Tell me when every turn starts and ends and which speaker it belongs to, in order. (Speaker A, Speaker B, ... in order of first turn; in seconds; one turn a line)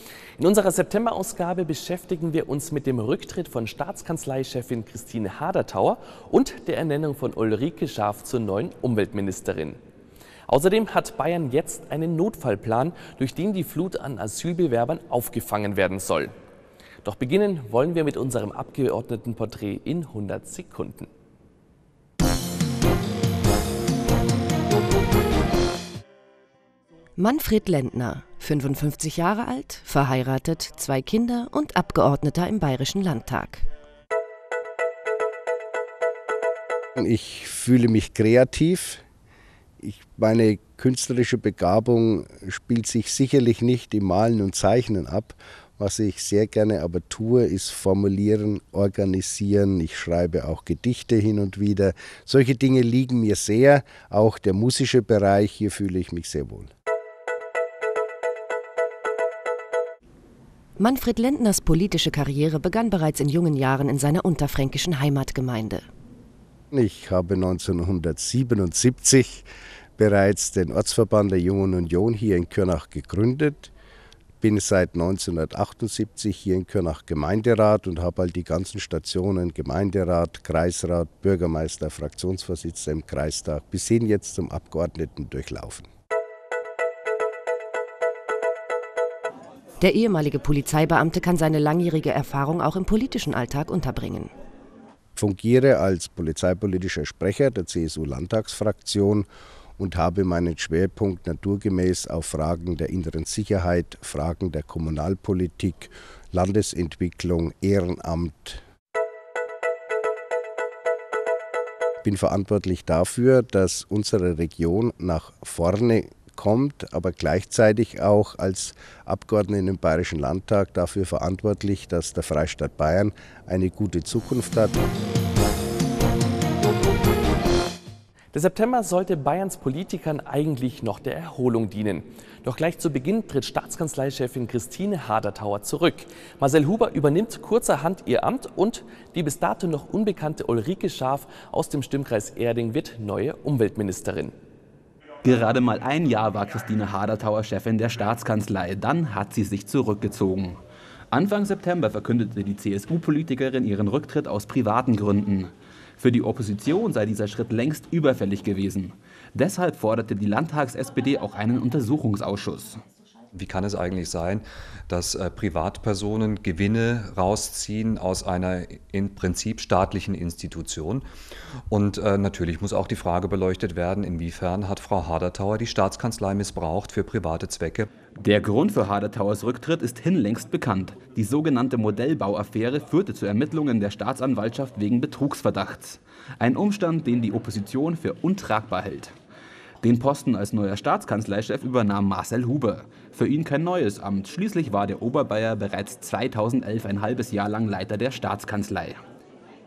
Speaker A: 0.4-9.8
Speaker A: 10.5-16.3
Speaker A: 17.0-21.1
Speaker B: 27.2-33.7
Speaker C: 37.0-39.0
Speaker C: 39.8-56.7
Speaker B: 60.8-65.8
Speaker C: 66.7-73.7
Speaker C: 74.4-85.9
Speaker B: 89.8-94.3
Speaker C: 95.2-108.6
Speaker C: 112.0-124.8
Speaker A: 128.3-144.3
Speaker D: 145.2-150.6
Speaker D: 151.1-162.8
Speaker E: 163.3-171.1
Speaker E: 171.7-177.9
Speaker D: 178.2-189.1
Speaker D: 189.8-199.0